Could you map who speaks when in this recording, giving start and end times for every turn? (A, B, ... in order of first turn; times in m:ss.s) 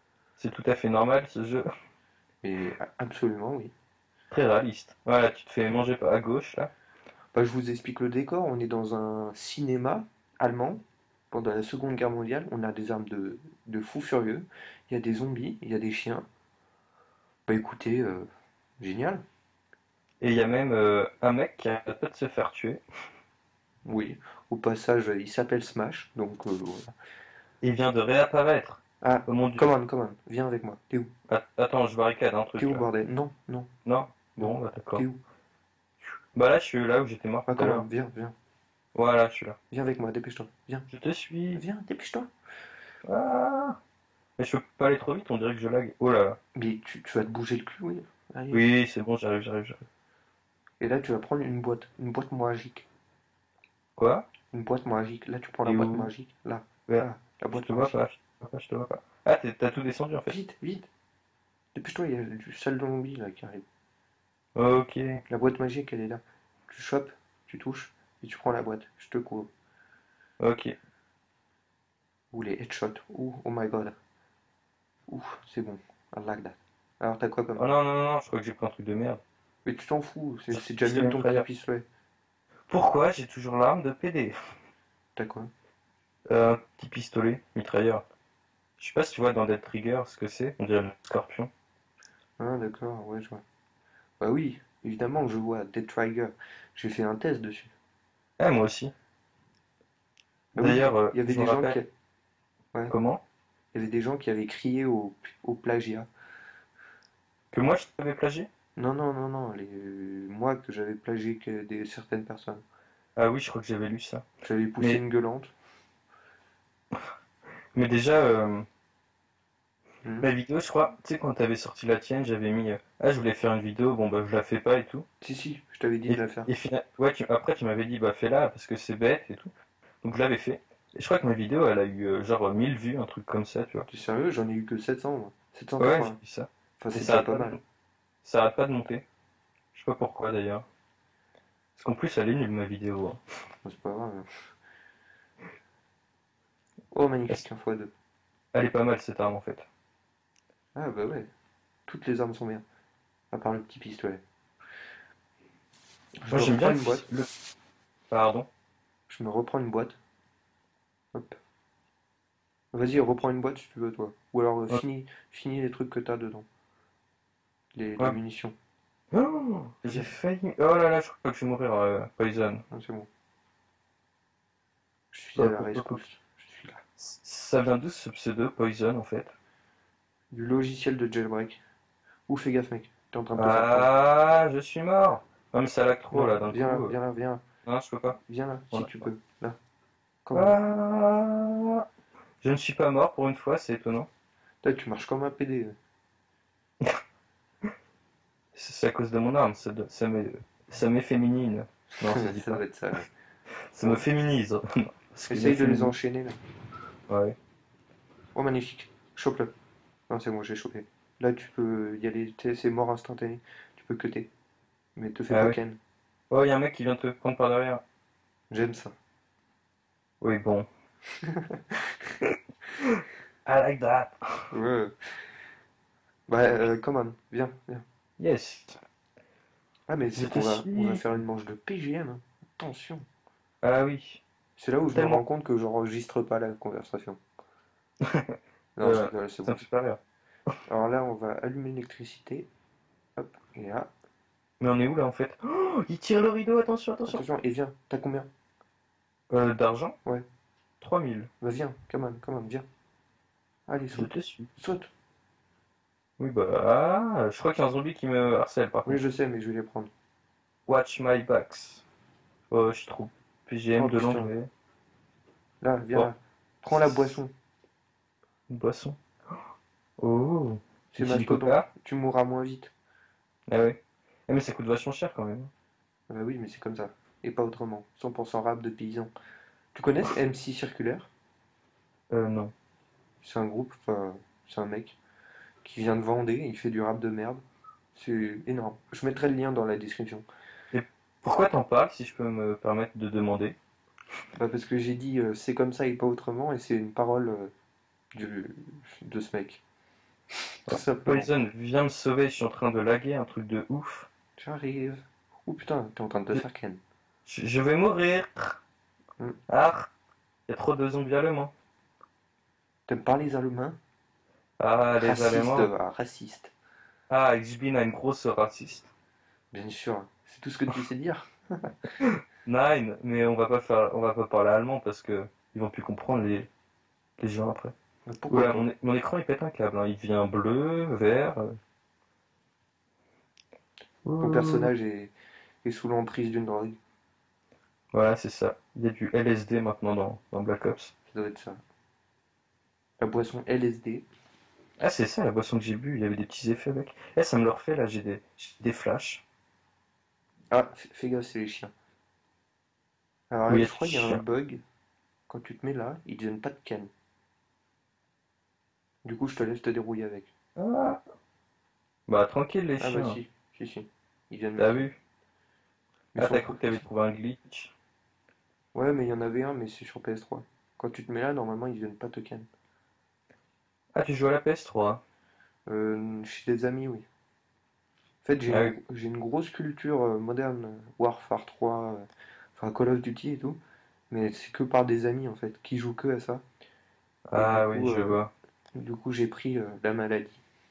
0:00.4-0:01.7 A
0:02.4-0:03.7 B
0:04.3-0:06.7 A
0:07.3-0:16.2 B
0:17.5-0:18.2 B
0:18.8-0:19.2 B
0:20.2-0:22.8 A
0:23.8-0:26.9 B
0:27.6-0:29.6 A
0:29.0-0:31.1 B
0:31.3-0:32.9 A
0:32.6-0:33.7 B
0:33.8-0:35.0 A
0:34.4-0:35.2 B
0:36.3-0:37.8 A
0:37.5-0:38.3 B
0:38.9-0:39.6 A
0:39.7-0:40.9 B
0:40.9-0:41.6 A
0:41.5-0:42.3 B
0:43.0-0:43.8 A
0:44.4-0:46.4 A
0:46.5-0:48.6 B
0:48.5-0:49.8 A
0:50.8-0:52.8 B
0:54.0-0:54.2 A
0:54.5-0:58.0 B
0:55.6-0:56.1 A
0:56.9-1:00.3 A
1:00.3-1:00.9 B
1:01.7-1:03.6 B
1:04.6-1:05.2 A
1:05.3-1:09.5 B
1:10.4-1:10.7 A
1:12.3-1:13.9 B
1:15.1-1:17.7 B
1:17.6-1:19.2 A
1:19.6-1:21.8 B
1:20.5-1:21.4 A
1:22.7-1:24.4 A
1:25.2-1:25.5 B
1:26.3-1:28.0 A
1:28.8-1:31.5 A
1:32.4-1:33.4 B
1:34.2-1:37.7 B
1:38.4-1:38.9 A
1:40.6-1:41.8 A
1:40.6-1:41.9 B
1:42.9-1:43.2 A
1:43.7-1:46.1 B
1:47.5-1:48.5 A
1:48.8-1:52.6 B
1:53.2-1:54.2 A
1:54.4-1:55.5 B
1:57.7-1:58.7 A
2:00.2-2:05.0 A
2:05.2-2:06.5 B
2:06.1-2:09.5 A
2:10.0-2:13.9 A
2:13.9-2:16.2 B
2:15.8-2:17.6 A
2:16.8-2:17.6 B
2:18.2-2:19.0 A
2:19.7-2:20.6 A
2:21.8-2:23.2 A
2:23.6-2:24.2 B
2:26.9-2:27.9 B
2:28.5-2:29.6 A
2:30.7-2:31.3 B
2:31.9-2:32.6 B
2:33.3-2:34.2 B
2:36.2-2:37.1 B
2:36.3-2:37.3 A
2:38.1-2:38.5 A
2:39.1-2:40.0 B
2:42.7-2:46.4 B
2:47.7-2:48.5 B
2:49.1-2:52.6 A
2:49.8-2:50.1 B
2:52.7-2:53.1 B
2:55.1-2:56.8 B
2:55.4-2:56.0 A
2:57.0-2:59.3 A
3:00.3-3:01.6 B
3:02.3-3:03.9 B
3:03.3-3:07.0 A
3:06.1-3:07.4 B
3:07.6-3:08.2 A
3:08.2-3:09.6 B
3:08.7-3:09.1 A
3:10.2-3:10.6 B
3:10.3-3:11.8 A
3:12.4-3:14.1 A
3:14.6-3:15.8 B
3:18.5-3:22.6 A
3:22.0-3:23.1 B
3:23.7-3:25.9 A
3:25.3-3:26.4 B
3:27.1-3:27.4 A
3:28.3-3:29.5 B
3:30.1-3:34.3 B
3:35.0-3:35.8 B
3:35.3-3:35.6 A
3:36.3-3:37.8 A
3:38.5-3:38.9 B
3:40.2-3:40.7 A
3:41.2-3:41.8 B
3:42.8-3:44.2 A
3:44.5-3:44.9 B
3:46.3-3:47.8 B
3:48.2-3:48.8 A
3:49.9-3:53.0 B
3:50.1-3:51.0 A
3:53.6-3:54.2 A
3:54.6-3:57.2 B
3:54.9-3:55.2 A
3:58.0-4:00.0 A
3:58.8-3:59.6 B
4:00.7-4:02.5 B
4:03.2-4:03.9 B
4:04.6-4:07.2 A
4:07.1-4:08.3 B
4:09.3-4:10.0 A
4:10.8-4:11.3 A
4:11.4-4:12.6 B
4:13.7-4:14.9 B
4:13.9-4:14.5 A
4:16.2-4:19.0 A
4:18.8-4:19.9 B
4:20.7-4:21.8 A
4:22.5-4:24.5 A
4:23.8-4:24.3 B
4:25.6-4:27.3 B
4:26.7-4:27.1 A
4:28.5-4:29.0 A
4:30.0-4:31.7 A
4:30.9-4:32.7 B
4:33.5-4:35.5 A
4:36.1-4:39.1 B
4:39.7-4:41.1 B
4:42.1-4:42.5 A
4:43.2-4:45.0 B
4:45.6-4:47.4 B
4:47.9-4:50.2 B
4:50.7-4:53.6 A
4:54.4-4:57.5 B
4:58.1-4:59.6 B
5:00.6-5:01.3 B
5:00.7-5:04.1 A
5:04.4-5:06.8 B
5:07.2-5:08.6 A
5:09.5-5:09.9 A
5:10.5-5:11.5 A
5:12.9-5:13.8 B
5:14.6-5:15.7 A
5:15.0-5:16.5 B
5:17.1-5:18.9 A
5:19.5-5:21.9 B
5:22.0-5:26.5 A
5:27.2-5:27.7 A
5:28.1-5:28.7 B
5:28.3-5:31.5 A
5:34.0-5:34.7 A
5:34.2-5:35.1 B
5:35.6-5:36.8 B
5:37.9-5:40.9 A
5:41.1-5:41.6 B
5:43.0-5:44.0 B
5:44.8-5:49.2 A
5:50.5-5:51.7 B
5:53.3-5:54.6 B
5:53.5-5:54.2 A
5:55.3-5:56.9 B
5:59.0-6:00.3 B
6:00.6-6:01.0 A
6:02.1-6:03.2 A
6:02.8-6:04.9 B
6:04.6-6:05.0 A
6:06.1-6:06.8 B
6:06.2-6:07.7 A
6:08.7-6:12.5 B
6:13.9-6:15.0 A
6:15.7-6:17.0 B
6:18.2-6:22.0 B
6:18.5-6:18.7 A
6:22.6-6:26.4 B
6:27.3-6:28.3 A
6:27.3-6:28.2 B
6:28.7-6:30.4 B